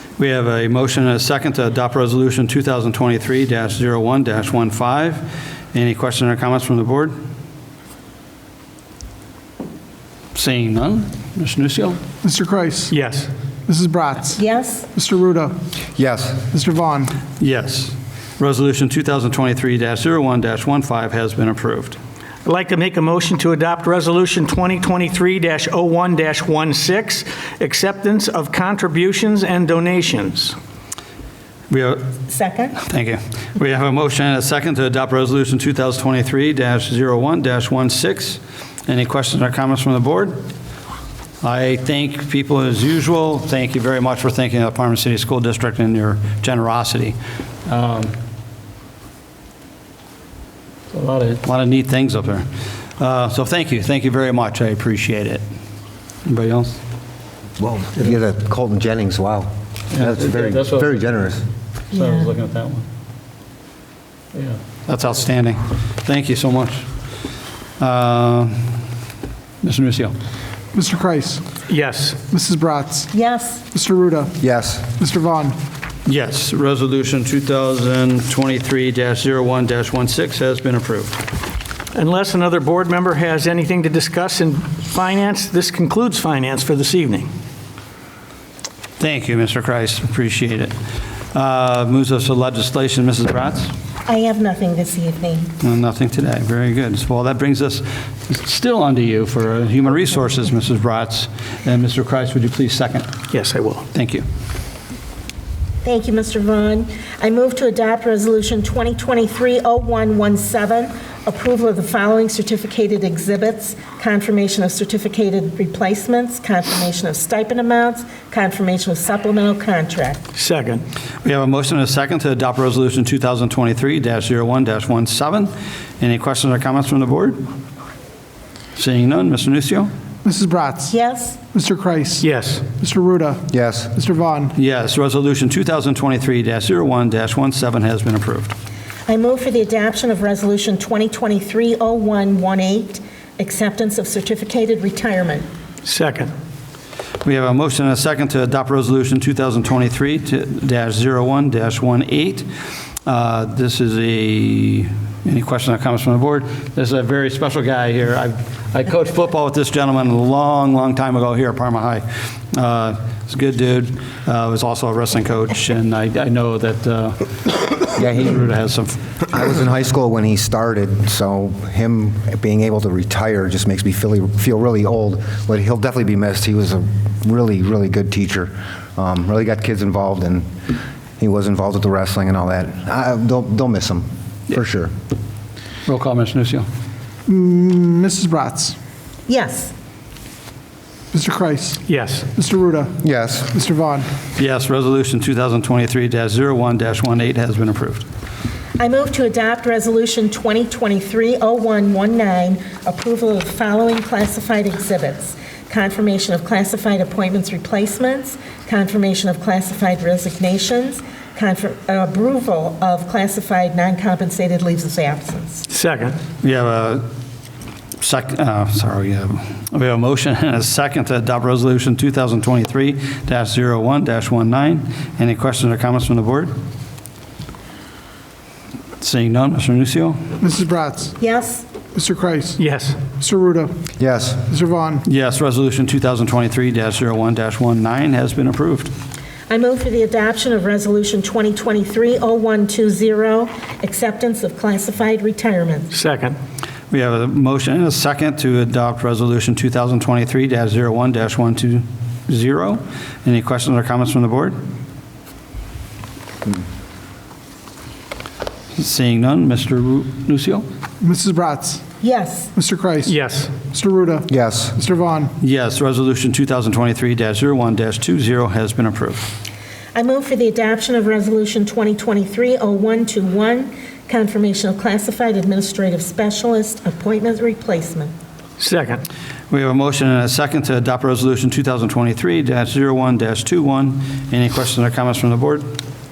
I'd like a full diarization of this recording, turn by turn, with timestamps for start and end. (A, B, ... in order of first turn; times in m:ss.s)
0:00.2-0:07.2 A
0:10.4-0:12.0 A
0:12.2-0:12.9 B
0:12.9-0:13.3 C
0:13.7-0:14.4 B
0:14.4-0:14.9 D
0:14.9-0:15.6 B
0:16.0-0:16.4 E
0:16.4-0:17.2 B
0:17.4-0:22.0 A
0:22.4-0:30.6 C
0:31.7-0:32.0 A
0:32.3-0:32.8 D
0:32.8-0:40.4 A
0:41.4-0:48.1 A
0:50.9-0:55.4 A
0:56.2-0:56.8 A
0:57.6-1:01.4 E
0:59.9-1:01.0 A
1:01.9-1:02.8 A
1:01.9-1:02.3 D
1:04.3-1:06.9 A
1:07.8-1:08.7 A
1:09.6-1:10.2 A
1:10.7-1:11.4 B
1:11.7-1:12.2 C
1:12.3-1:13.1 B
1:13.1-1:13.6 D
1:13.7-1:14.4 B
1:14.4-1:14.9 E
1:14.9-1:15.6 B
1:16.0-1:21.2 A
1:21.9-1:27.3 C
1:29.0-1:30.7 A
1:31.3-1:33.7 A
1:34.1-1:35.5 D
1:35.6-1:43.1 A
1:43.3-1:43.9 C
1:43.9-1:44.3 A
1:45.8-2:00.2 D
2:00.4-2:00.8 C
2:01.2-2:07.4 A
2:08.8-2:09.9 A
2:10.2-2:10.9 B
2:10.9-2:11.4 D
2:11.5-2:14.5 B
2:12.2-2:12.7 C
2:13.5-2:13.9 E
2:14.6-2:18.5 A
2:19.1-2:25.5 D
2:25.8-2:26.3 C
2:27.2-2:32.5 A
2:33.0-2:47.3 A
2:48.0-2:48.4 E
2:48.0-2:49.0 A
2:49.3-3:00.5 E
3:01.2-3:04.9 E
3:05.9-3:06.7 A
3:07.3-3:08.8 B
3:09.3-3:09.7 D
3:11.1-3:14.1 B
3:11.9-3:12.3 C
3:13.0-3:13.5 E
3:14.4-3:18.0 A
3:18.8-3:35.7 D
3:35.7-3:36.2 C
3:36.4-3:37.0 A
3:38.0-3:46.5 A
3:49.0-3:50.2 A
3:50.4-3:51.2 B
3:51.2-3:51.7 D
3:51.9-3:52.6 B
3:52.6-3:53.0 C
3:53.2-3:53.7 B
3:54.0-3:54.4 E
3:54.5-3:55.0 B
3:55.0-3:58.9 A
3:59.5-4:05.9 D
4:05.9-4:06.4 C
4:06.9-4:14.6 A
4:18.8-4:20.6 A
4:21.0-4:21.9 B
4:22.0-4:22.5 D
4:22.6-4:25.3 B
4:23.0-4:23.6 C
4:24.3-4:24.8 E
4:25.4-4:29.3 A
4:30.0-4:38.1 D
4:38.6-4:39.0 C
4:39.5-4:45.7 A